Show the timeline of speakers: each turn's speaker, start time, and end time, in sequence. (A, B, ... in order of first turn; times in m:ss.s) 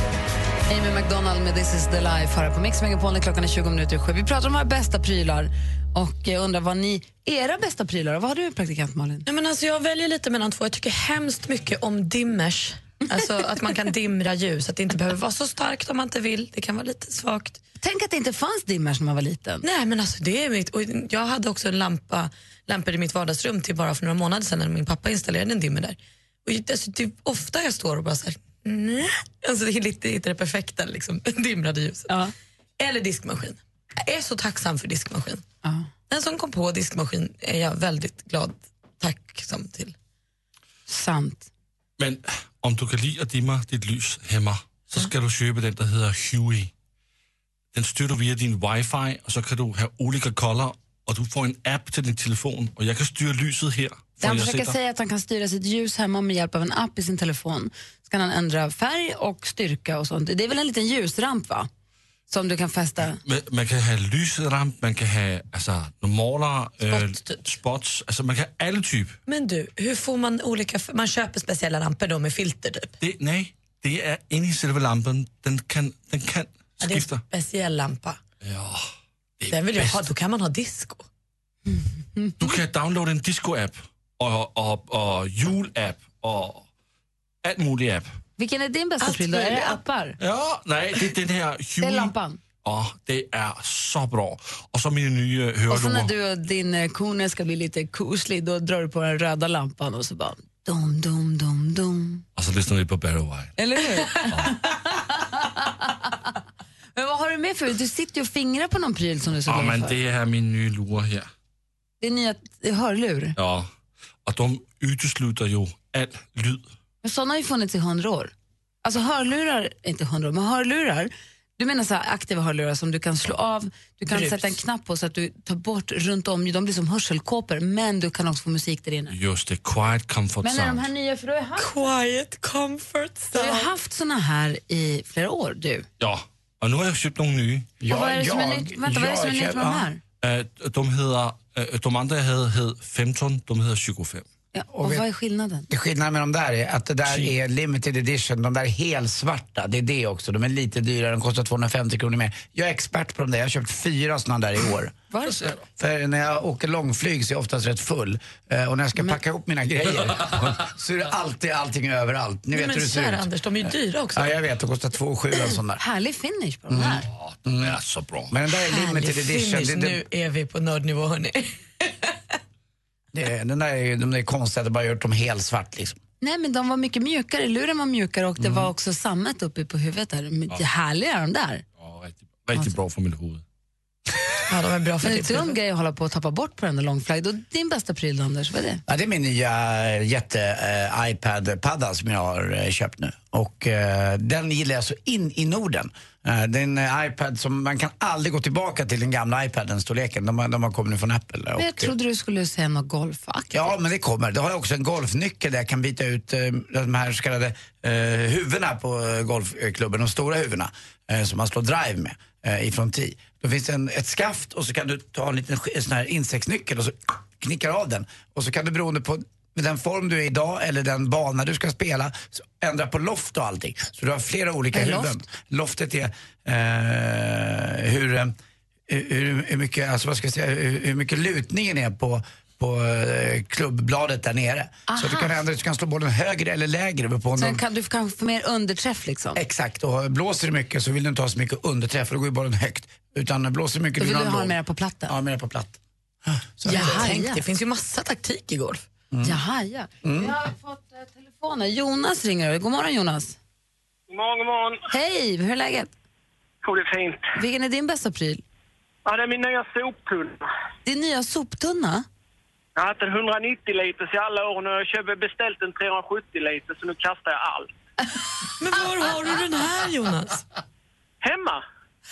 0:00.7-0:09.2 A
0:09.2-0:17.6 B
0:17.8-0:19.6 A
0:19.6-0:32.2 B
0:32.8-0:35.4 B
0:36.1-0:39.9 B
0:40.9-0:41.5 A
0:42.0-0:46.7 C
0:47.7-0:54.8 C
0:54.2-1:01.7 A
1:02.3-1:03.2 A
1:03.1-1:09.2 C
1:06.8-1:07.5 B
1:09.3-1:12.9 B
1:13.0-1:17.2 C
1:16.8-1:18.2 B
1:18.4-1:18.9 C
1:19.4-1:20.1 C
1:19.5-1:21.0 B
1:22.2-1:22.5 A
1:22.4-1:26.6 C
1:27.4-1:28.1 C
1:28.4-1:30.2 A
1:29.0-1:29.8 B
1:30.2-1:36.1 C
1:31.8-1:32.4 A
1:35.7-1:42.2 A
1:42.4-1:44.6 C
1:43.6-1:45.9 A
1:47.0-1:50.0 A
1:49.4-1:51.3 C
1:52.0-1:53.3 A
1:53.4-1:53.7 C
1:54.2-1:56.6 C
1:57.0-1:58.3 A
1:58.8-2:09.1 A
2:04.0-2:04.6 B
2:09.1-2:10.9 C
2:10.4-2:11.7 A
2:11.6-2:13.7 B
2:13.3-2:15.8 A
2:16.0-2:17.7 C
2:17.8-2:19.9 D
2:17.9-2:20.0 A
2:20.2-2:24.2 C
2:24.5-2:25.7 A
2:24.7-2:25.0 D
2:25.7-2:35.0 D
2:27.1-2:27.3 C
2:35.1-2:35.5 A
2:35.8-2:43.3 D
2:42.5-2:44.3 B
2:44.1-2:45.8 D
2:45.8-2:47.0 A
2:46.7-2:47.8 D
2:47.1-2:48.3 C
2:48.3-2:50.0 D
2:48.6-2:51.6 B
2:53.1-2:56.0 D
2:56.2-3:01.6 A
2:58.4-2:58.7 D
3:01.8-3:03.4 C
3:04.5-3:05.6 B
3:05.0-3:08.8 A
3:08.9-3:21.9 D
3:21.6-3:23.8 A
3:23.5-3:48.3 D
3:44.7-3:45.2 A
3:48.9-3:57.6 D
3:54.9-3:55.4 A
3:57.4-3:59.4 A
3:59.3-4:04.6 D
4:04.0-4:05.1 A
4:05.1-4:07.1 D
4:06.6-4:07.4 A
4:06.6-4:08.8 B
4:09.1-4:09.4 D
4:09.2-4:13.4 A
4:10.0-4:10.4 D
4:14.1-4:14.8 E
4:14.9-4:15.9 A
4:16.6-4:17.3 E
4:17.3-4:18.4 A
4:19.0-4:20.5 E
4:20.8-4:22.0 A
4:22.8-4:27.7 E
4:28.6-4:30.4 B
4:31.2-4:31.6 E